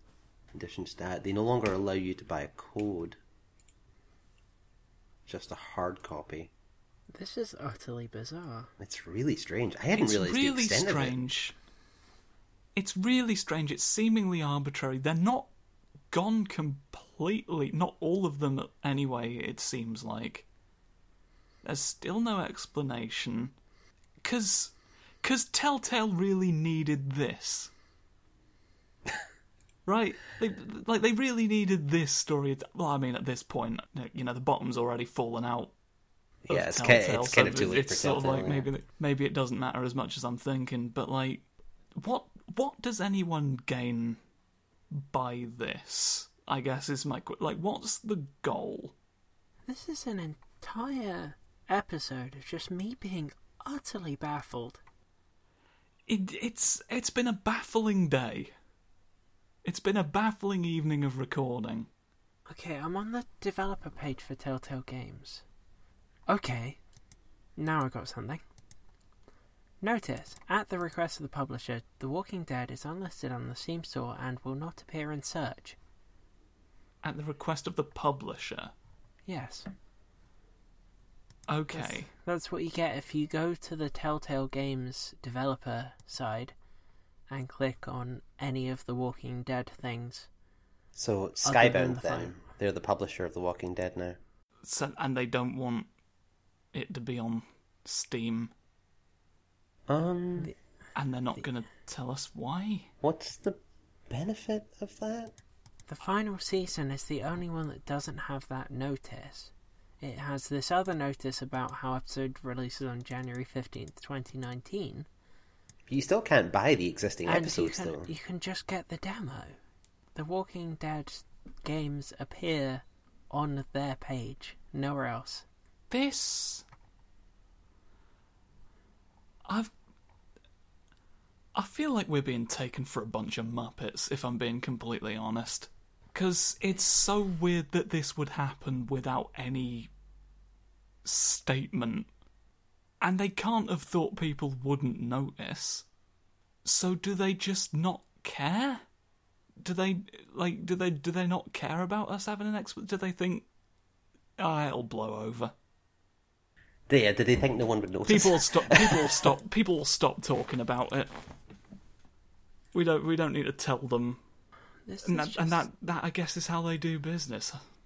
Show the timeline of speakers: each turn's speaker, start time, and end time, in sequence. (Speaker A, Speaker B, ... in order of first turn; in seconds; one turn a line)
Speaker A: 0.5-3.2
Speaker A: 5.3-6.5
Speaker B: 7.1-8.7
Speaker A: 8.8-11.2
Speaker C: 9.9-11.6
Speaker C: 12.8-15.5
Speaker C: 16.1-20.5
Speaker C: 21.6-23.5
Speaker C: 24.2-27.7
Speaker C: 29.9-35.7
Speaker A: 36.5-38.7
Speaker C: 36.5-41.5
Speaker C: 42.0-44.2
Speaker C: 44.9-48.9
Speaker B: 49.7-54.8
Speaker C: 56.1-58.5
Speaker C: 59.6-61.9
Speaker B: 62.5-65.5
Speaker B: 66.3-66.8
Speaker B: 67.6-68.4
Speaker B: 69.8-75.8
Speaker C: 77.0-78.7
Speaker B: 79.3-79.7
Speaker C: 81.5-82.1
Speaker B: 81.7-86.5
Speaker B: 87.3-90.3
Speaker A: 91.0-94.2
Speaker B: 91.4-92.3
Speaker C: 94.7-95.9
Speaker C: 96.7-98.5
Speaker A: 99.9-100.5
Speaker C: 101.0-102.9
Speaker A: 103.0-103.6
Speaker A: 104.1-105.3
Speaker B: 105.9-115.1
Speaker A: 115.9-118.1
Speaker B: 117.3-119.6
Speaker B: 120.2-125.5
Speaker C: 125.9-126.7
Speaker C: 129.5-129.7
Speaker C: 131.6-139.9
Speaker C: 141.1-142.1
Speaker C: 143.0-145.8
Speaker C: 146.7-148.8
Speaker C: 149.6-153.5
Speaker C: 154.4-155.5
Speaker A: 156.9-159.3
Speaker C: 158.1-161.1
Speaker C: 162.7-164.2
Speaker B: 164.9-165.7
Speaker C: 165.0-167.6